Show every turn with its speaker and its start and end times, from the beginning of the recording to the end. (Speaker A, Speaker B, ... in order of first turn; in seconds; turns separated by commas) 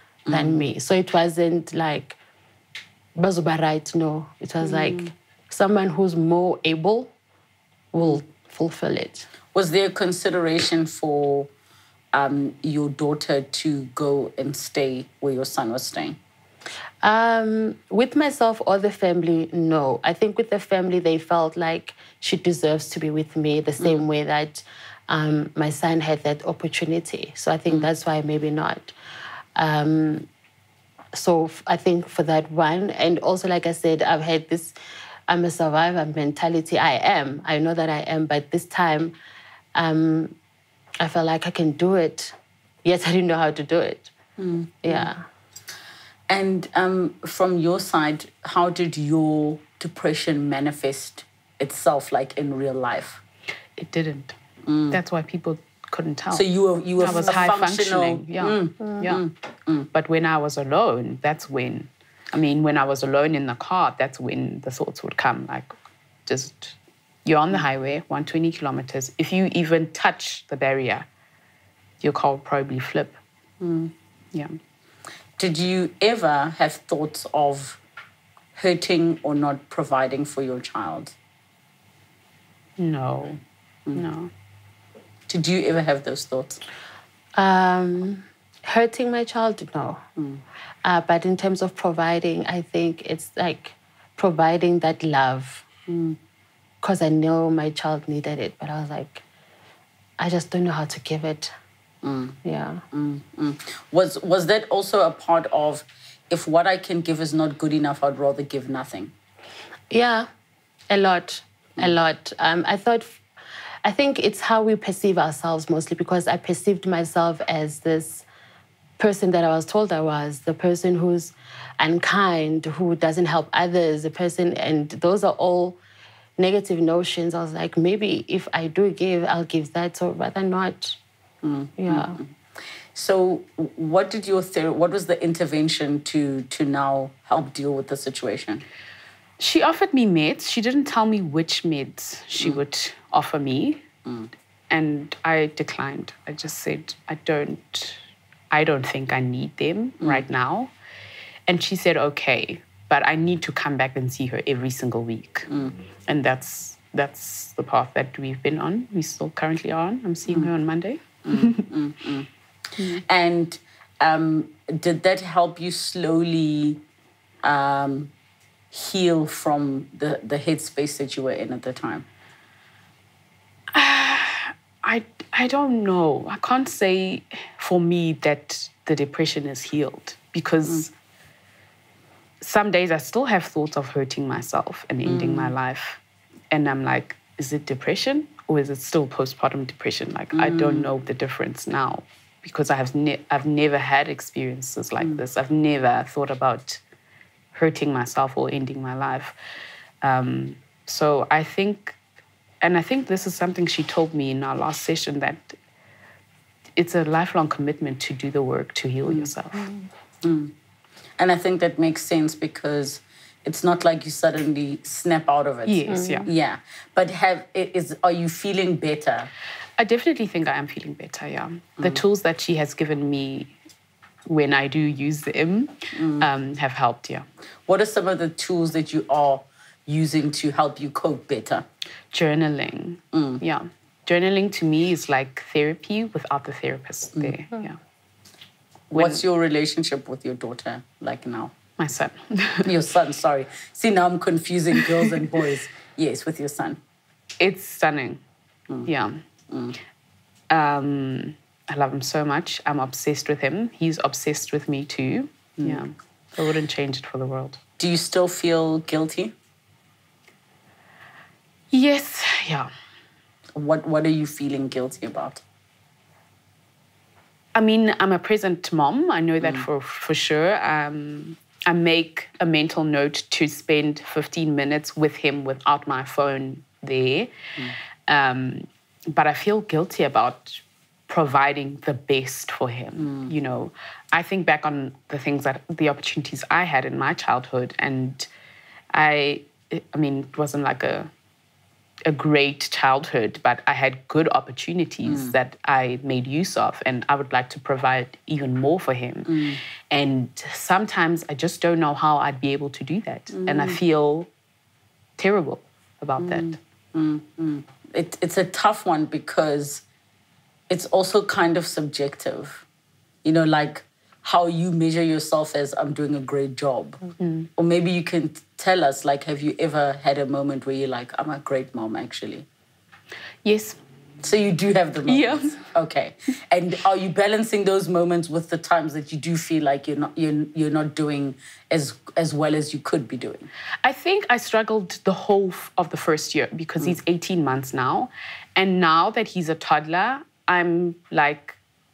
Speaker A: 0.2-0.6, Speaker B: 0.3-2.2, Speaker B: 3.1-7.1, Speaker A: 4.6-5.1, Speaker B: 7.9-9.3, Speaker A: 9.5-11.5, Speaker A: 12.1-16.2, Speaker B: 17.0-28.9, Speaker B: 29.6-30.3, Speaker B: 31.1-34.7, Speaker B: 35.3-39.1, Speaker B: 39.7-40.3, Speaker B: 41.0-44.1, Speaker A: 44.4-45.0, Speaker B: 44.8-45.2, Speaker A: 46.3-53.2, Speaker C: 53.8-54.4, Speaker A: 54.6-55.0, Speaker C: 54.9-56.5, Speaker A: 56.3-59.9, Speaker C: 57.0-59.2, Speaker C: 59.9-65.7, Speaker C: 66.2-71.1, Speaker C: 72.0-73.2, Speaker A: 73.6-73.9, Speaker A: 75.4-77.8, Speaker A: 78.5-81.1, Speaker C: 82.8-83.4, Speaker C: 83.9-84.3, Speaker A: 85.3-86.6, Speaker B: 87.3-90.0, Speaker B: 90.8-95.7, Speaker A: 95.9-96.2, Speaker B: 96.8-99.2, Speaker B: 100.2-101.5, Speaker A: 102.0-102.4, Speaker B: 102.4-102.8, Speaker A: 102.9-109.1, Speaker B: 109.9-110.3, Speaker B: 110.9-113.2, Speaker B: 113.8-118.2, Speaker B: 119.0-125.8, Speaker B: 126.4-131.0, Speaker A: 131.4-132.3, Speaker B: 131.8-132.2, Speaker A: 132.9-138.6, Speaker C: 139.4-143.8, Speaker C: 144.7-148.0, Speaker C: 148.5-150.7, Speaker C: 151.5-155.5, Speaker A: 155.5-155.7, Speaker C: 156.1-161.7, Speaker A: 161.2-162.3, Speaker A: 162.8-166.8, Speaker A: 167.4-168.1, Speaker A: 168.7-172.1, Speaker C: 173.7-180.9, Speaker C: 182.4-186.0, Speaker A: 185.0-185.5, Speaker C: 186.5-196.8, Speaker A: 190.3-190.9, Speaker C: 197.5-199.3, Speaker C: 200.0-201.9, Speaker C: 202.6-205.6, Speaker C: 206.8-209.7, Speaker A: 210.2-210.5, Speaker A: 211.2-219.3, Speaker C: 215.7-216.3, Speaker B: 215.9-216.3, Speaker C: 219.8-223.5, Speaker C: 224.3-227.2, Speaker A: 225.9-226.2, Speaker A: 227.7-231.6, Speaker C: 232.1-237.8, Speaker A: 233.1-233.4, Speaker A: 238.9-241.5, Speaker C: 238.9-239.2, Speaker C: 241.8-242.7, Speaker A: 242.6-246.8, Speaker C: 247.4-248.2, Speaker C: 248.9-249.2, Speaker A: 249.5-249.8, Speaker C: 250.5-257.6, Speaker A: 257.8-259.3, Speaker C: 261.7-262.7, Speaker A: 263.6-265.4, Speaker C: 267.5-277.3, Speaker C: 278.1-288.3, Speaker A: 283.0-283.3, Speaker C: 288.9-291.1, Speaker C: 292.0-299.4, Speaker A: 295.1-295.3, Speaker A: 299.3-299.6, Speaker C: 299.9-304.3, Speaker A: 303.3-303.8, Speaker C: 305.2-306.6, Speaker A: 306.2-309.8, Speaker A: 310.7-312.6, Speaker A: 313.2-317.0, Speaker C: 317.2-317.5, Speaker A: 317.6-322.4, Speaker C: 323.4-323.8, Speaker A: 324.2-333.5, Speaker C: 325.1-325.6, Speaker C: 333.8-341.6